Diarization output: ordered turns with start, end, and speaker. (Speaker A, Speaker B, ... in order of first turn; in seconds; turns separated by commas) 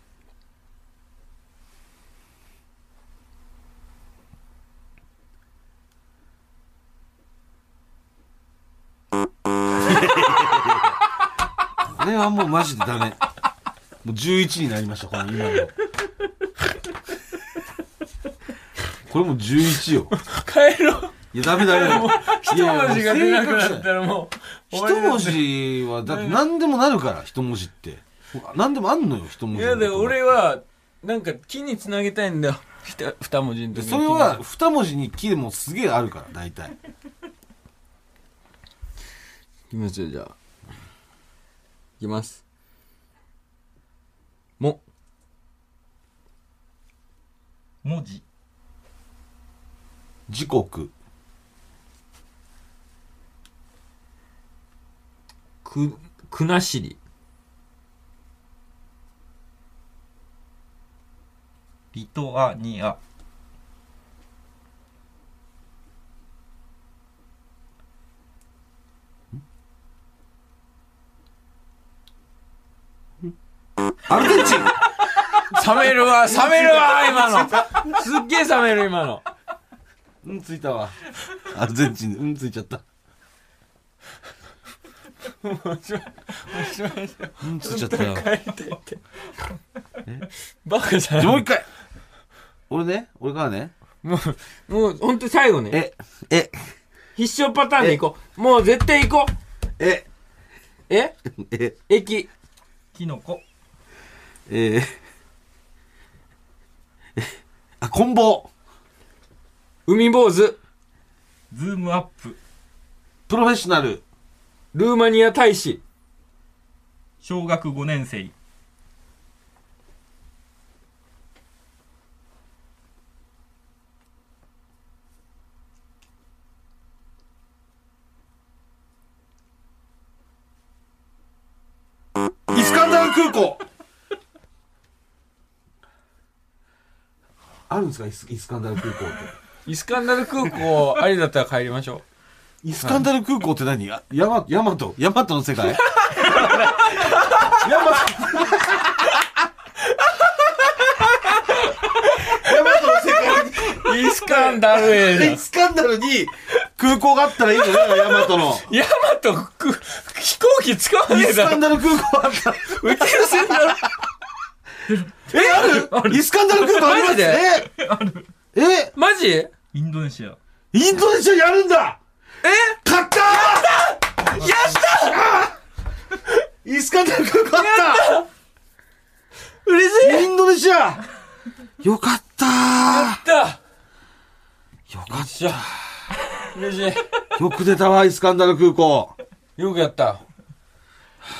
Speaker A: 9.8-11.0, Speaker A: 11.8-13.2, Speaker A: 14.0-15.7, Speaker A: 19.1-20.1, Speaker B: 20.1-26.4, Speaker A: 21.3-23.9, Speaker A: 24.7-30.3, Speaker B: 29.5-34.4, Speaker A: 33.7-36.7, Speaker B: 39.7-40.4, Speaker B: 42.0-42.4, Speaker C: 47.8-48.2, Speaker A: 50.3-50.9, Speaker B: 55.6-57.0, Speaker C: 61.9-63.0, Speaker A: 74.0-74.8, Speaker B: 75.3-79.2, Speaker A: 75.9-78.0, Speaker A: 80.2-82.8, Speaker B: 85.2-89.0, Speaker A: 87.4-88.3, Speaker B: 90.6-91.5, Speaker A: 91.2-91.7, Speaker A: 92.7-93.7, Speaker B: 94.0-95.8, Speaker A: 95.7-96.7, Speaker B: 97.2-99.3, Speaker A: 99.8-100.1, Speaker B: 100.9-101.1, Speaker A: 101.3-101.8, Speaker B: 101.9-102.3, Speaker C: 102.9-103.4, Speaker A: 104.5-105.0, Speaker A: 107.2-108.5, Speaker B: 109.8-110.6, Speaker C: 111.5-112.4, Speaker A: 113.3-114.0, Speaker B: 114.7-115.8, Speaker C: 117.2-118.3, Speaker A: 132.5-133.6, Speaker A: 137.7-139.3, Speaker B: 139.7-142.0, Speaker A: 142.6-149.4, Speaker B: 145.9-147.5, Speaker B: 149.8-155.4, Speaker A: 152.2-158.7, Speaker B: 157.7-161.8, Speaker A: 161.1-163.9, Speaker B: 162.6-163.9, Speaker C: 164.9-166.2, Speaker A: 165.3-167.7, Speaker B: 166.5-167.5, Speaker C: 167.5-168.2, Speaker A: 168.5-168.9, Speaker B: 168.9-169.5, Speaker C: 169.7-170.4, Speaker A: 170.7-172.0, Speaker B: 172.4-175.3, Speaker A: 172.8-175.6, Speaker A: 176.6-178.1, Speaker B: 177.6-178.3, Speaker B: 179.6-180.3, Speaker A: 180.0-181.1, Speaker A: 181.8-183.2, Speaker B: 182.8-183.6, Speaker A: 184.9-186.1, Speaker B: 185.1-185.6, Speaker B: 186.4-187.1, Speaker A: 187.3-189.2, Speaker B: 189.6-190.2